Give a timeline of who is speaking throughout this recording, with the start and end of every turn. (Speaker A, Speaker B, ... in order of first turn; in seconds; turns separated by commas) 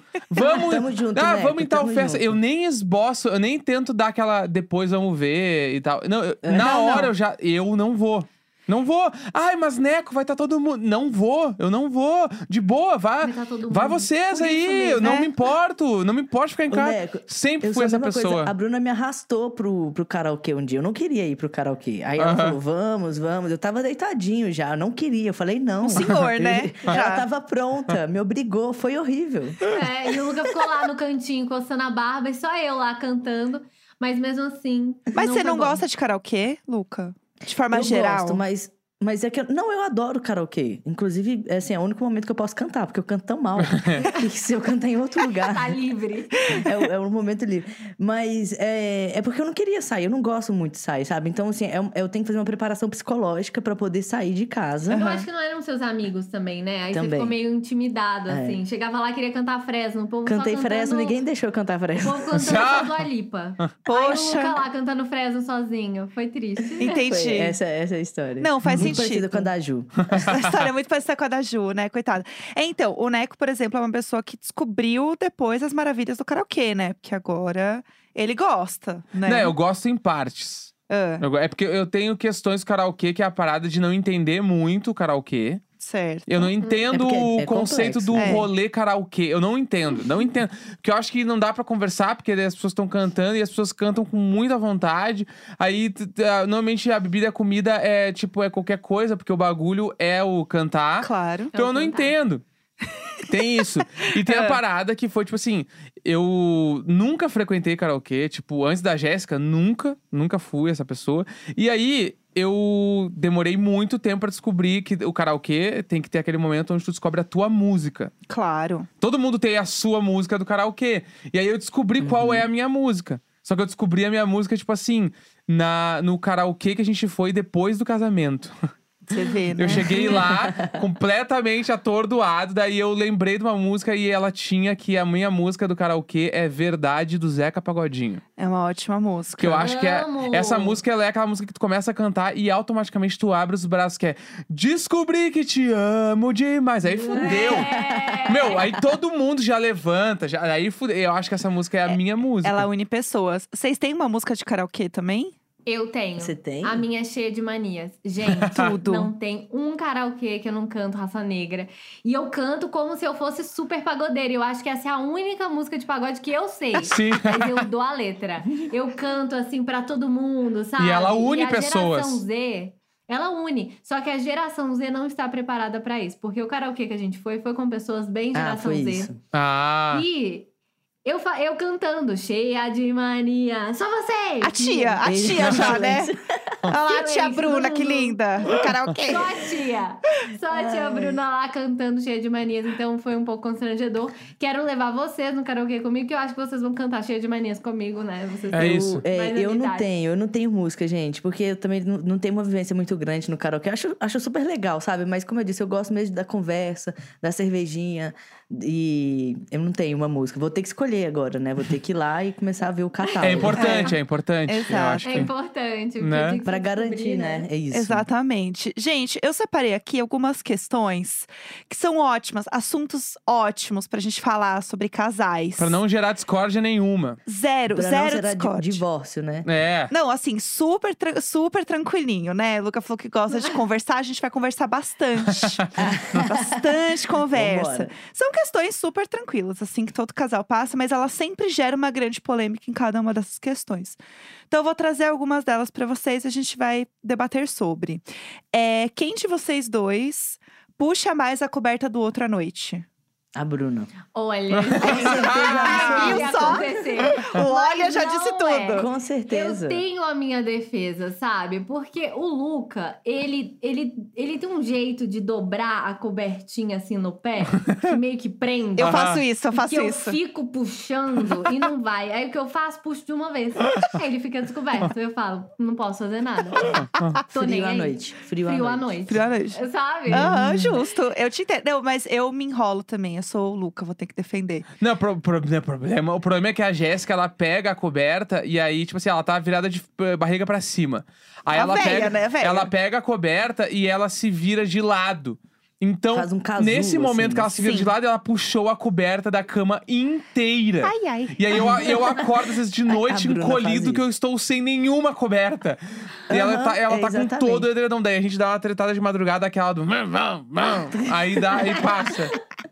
Speaker A: 0.3-18.5, Speaker B: 0.4-2.4, Speaker B: 6.4-7.1, Speaker C: 6.6-7.0, Speaker D: 13.2-15.2, Speaker C: 15.0-15.3, Speaker B: 16.7-29.7, Speaker A: 22.2-22.6, Speaker C: 25.8-27.2, Speaker D: 29.7-35.8, Speaker C: 35.1-38.4, Speaker B: 37.7-45.8, Speaker A: 43.6-44.0, Speaker D: 45.4-46.4, Speaker C: 46.5-46.7, Speaker B: 46.5-55.1, Speaker C: 54.9-55.3, Speaker D: 54.9-61.2, Speaker B: 56.9-57.4, Speaker B: 58.3-58.6, Speaker B: 60.2-62.5, Speaker D: 62.0-67.0, Speaker A: 62.3-62.9, Speaker C: 63.8-64.6, Speaker B: 66.8-70.1, Speaker C: 66.8-67.6, Speaker C: 68.4-69.5, Speaker A: 68.6-69.0, Speaker A: 70.1-70.4, Speaker C: 70.1-79.5, Speaker A: 79.2-85.6, Speaker C: 80.9-81.2, Speaker C: 85.8-86.5, Speaker A: 86.3-102.4, Speaker D: 86.6-86.8, Speaker B: 86.9-88.5, Speaker C: 88.1-88.5, Speaker C: 101.0-101.6, Speaker D: 101.5-102.1, Speaker C: 102.8-103.7, Speaker A: 103.2-118.1, Speaker C: 104.2-104.6, Speaker C: 118.3-118.9, Speaker A: 119.0-128.5, Speaker B: 122.0-122.5, Speaker C: 129.1-130.3, Speaker A: 129.6-138.2, Speaker B: 129.7-130.8, Speaker C: 138.4-139.7, Speaker A: 139.4-147.7, Speaker D: 139.6-140.8, Speaker D: 146.8-148.6, Speaker B: 147.2-148.7, Speaker A: 148.2-152.7, Speaker C: 151.9-155.3, Speaker D: 155.7-179.1, Speaker B: 156.2-156.8, Speaker A: 158.3-158.7, Speaker C: 158.5-159.1, Speaker A: 166.9-167.6, Speaker A: 170.8-172.2, Speaker B: 178.3-179.2, Speaker A: 179.3-180.1, Speaker D: 179.9-180.5, Speaker D: 181.0-185.1, Speaker C: 184.4-186.1, Speaker B: 185.0-186.6, Speaker C: 186.7-189.4, Speaker D: 186.9-199.9, Speaker B: 190.5-191.2, Speaker B: 198.5-213.8, Speaker A: 198.5-199.0, Speaker D: 213.0-213.9, Speaker A: 213.2-215.3, Speaker C: 213.5-215.3, Speaker D: 215.0-217.5, Speaker A: 216.0-216.4, Speaker B: 216.4-218.1, Speaker C: 217.7-225.8, Speaker A: 225.6-227.2, Speaker C: 227.2-228.8, Speaker B: 227.7-229.5, Speaker A: 229.4-229.9, Speaker C: 229.9-244.0, Speaker B: 235.8-236.8, Speaker B: 237.3-237.9, Speaker C: 244.5-252.8, Speaker B: 253.3-253.9, Speaker D: 254.1-276.8, Speaker A: 254.6-255.6, Speaker B: 254.8-256.7, Speaker C: 255.6-258.9, Speaker B: 258.7-259.8, Speaker C: 268.8-270.2, Speaker A: 268.8-269.2, Speaker A: 276.6-277.2, Speaker B: 277.3-278.9, Speaker D: 277.3-280.3, Speaker C: 279.1-284.7, Speaker B: 280.1-280.8, Speaker A: 284.8-312.4, Speaker C: 291.5-292.7, Speaker B: 296.1-297.7, Speaker C: 297.5-297.9, Speaker C: 300.8-302.2, Speaker B: 302.9-304.1, Speaker B: 306.3-307.7